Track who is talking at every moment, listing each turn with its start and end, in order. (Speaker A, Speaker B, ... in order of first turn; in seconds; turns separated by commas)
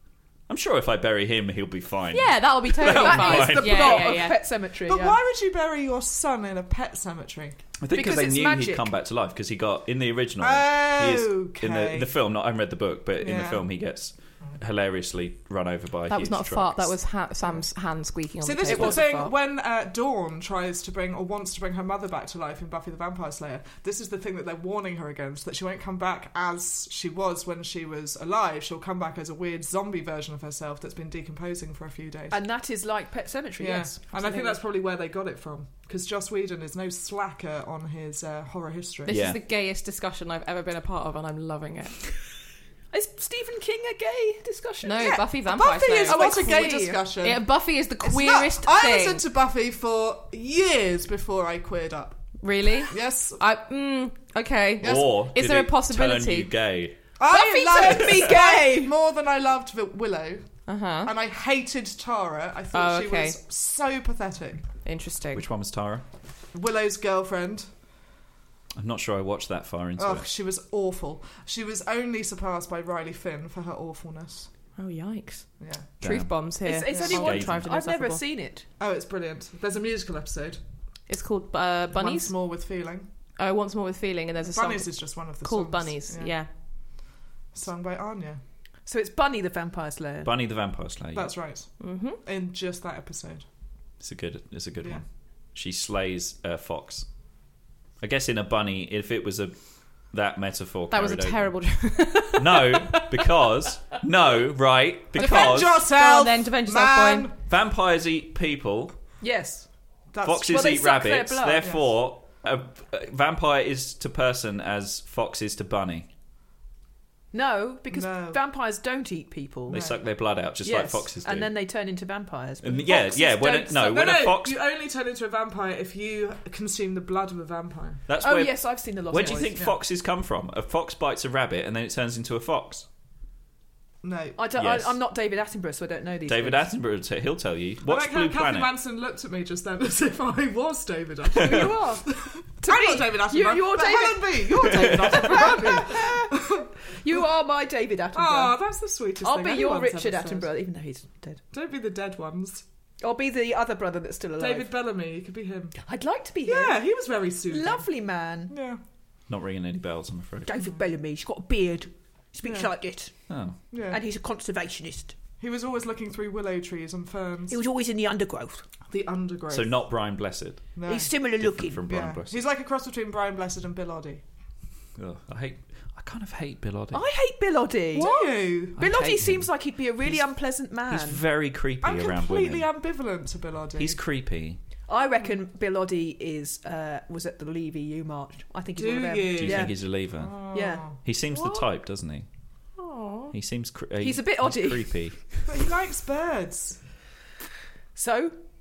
Speaker A: 0.5-4.1, Speaker B: 2.1-4.4, Speaker C: 2.8-5.2, Speaker D: 4.8-7.6, Speaker A: 7.8-16.9, Speaker C: 7.9-8.9, Speaker D: 10.4-12.1, Speaker D: 13.2-13.6, Speaker B: 16.1-19.3, Speaker D: 18.4-32.4, Speaker C: 18.7-19.3, Speaker C: 32.3-34.5, Speaker D: 33.6-39.2, Speaker B: 39.0-42.0, Speaker A: 39.1-39.4, Speaker C: 42.9-45.3, Speaker B: 44.8-46.6, Speaker D: 45.0-47.5, Speaker C: 46.0-47.1, Speaker B: 47.2-49.2, Speaker D: 48.0-52.2, Speaker B: 52.4-56.5, Speaker D: 52.9-53.4, Speaker A: 54.8-57.0, Speaker D: 57.2-64.7, Speaker C: 57.3-58.9, Speaker B: 60.7-61.1, Speaker B: 62.7-63.4, Speaker B: 64.8-65.4, Speaker A: 65.3-66.0, Speaker D: 66.5-67.7, Speaker A: 68.7-70.3, Speaker D: 70.0-74.5, Speaker B: 74.8-78.2, Speaker D: 75.6-75.9, Speaker A: 76.0-76.3, Speaker C: 76.6-78.7, Speaker D: 76.9-77.3, Speaker A: 77.1-77.6, Speaker D: 78.8-80.6, Speaker B: 81.1-82.3, Speaker D: 81.9-83.1, Speaker B: 83.4-86.5, Speaker D: 84.5-86.3, Speaker D: 87.5-88.4, Speaker C: 88.9-90.3, Speaker A: 90.2-91.3, Speaker D: 91.1-93.5, Speaker B: 91.8-92.2, Speaker A: 94.0-97.1, Speaker A: 98.0-101.5, Speaker B: 100.9-103.2, Speaker A: 102.4-105.8, Speaker D: 105.1-107.4, Speaker B: 105.2-107.3, Speaker A: 107.5-108.9, Speaker C: 109.2-109.7, Speaker D: 110.1-110.6, Speaker A: 110.2-116.1, Speaker C: 110.4-111.8, Speaker D: 111.5-111.8, Speaker C: 117.3-120.0, Speaker D: 117.9-118.4, Speaker A: 119.7-121.5, Speaker D: 119.7-120.0, Speaker C: 120.6-124.0, Speaker A: 122.6-124.5, Speaker D: 123.8-128.0, Speaker A: 128.1-132.9, Speaker C: 128.2-129.5, Speaker D: 129.1-129.8, Speaker D: 134.0-134.4, Speaker C: 134.4-136.7, Speaker A: 134.6-135.0, Speaker A: 136.3-138.7, Speaker D: 137.9-146.7, Speaker C: 141.3-148.6, Speaker A: 141.4-141.7, Speaker A: 144.8-145.2, Speaker D: 148.1-150.5, Speaker C: 149.2-151.4, Speaker D: 151.5-152.6, Speaker C: 153.0-154.7, Speaker D: 154.4-155.8, Speaker C: 155.8-156.9, Speaker D: 156.4-157.9, Speaker C: 157.5-158.5, Speaker D: 158.5-158.8, Speaker A: 159.3-160.5, Speaker C: 160.4-163.3, Speaker D: 162.4-162.7, Speaker A: 163.3-163.6, Speaker D: 163.7-164.0, Speaker C: 163.9-165.2, Speaker D: 165.4-167.6, Speaker C: 167.5-168.7, Speaker D: 168.8-169.8, Speaker A: 169.5-170.7, Speaker D: 170.8-171.1, Speaker C: 170.8-171.8, Speaker A: 171.2-172.4, Speaker D: 171.8-174.2, Speaker A: 174.9-177.0, Speaker C: 176.9-181.2, Speaker D: 177.9-178.9, Speaker B: 178.0-178.3, Speaker A: 178.8-179.5, Speaker A: 180.9-182.7, Speaker D: 181.8-184.0, Speaker A: 183.8-184.6, Speaker C: 184.9-189.8, Speaker D: 188.8-191.0, Speaker A: 189.4-190.4, Speaker C: 190.5-190.8, Speaker A: 191.0-192.3, Speaker B: 192.8-193.3, Speaker A: 193.3-195.2, Speaker C: 194.0-195.0, Speaker D: 195.4-196.8, Speaker C: 197.9-198.4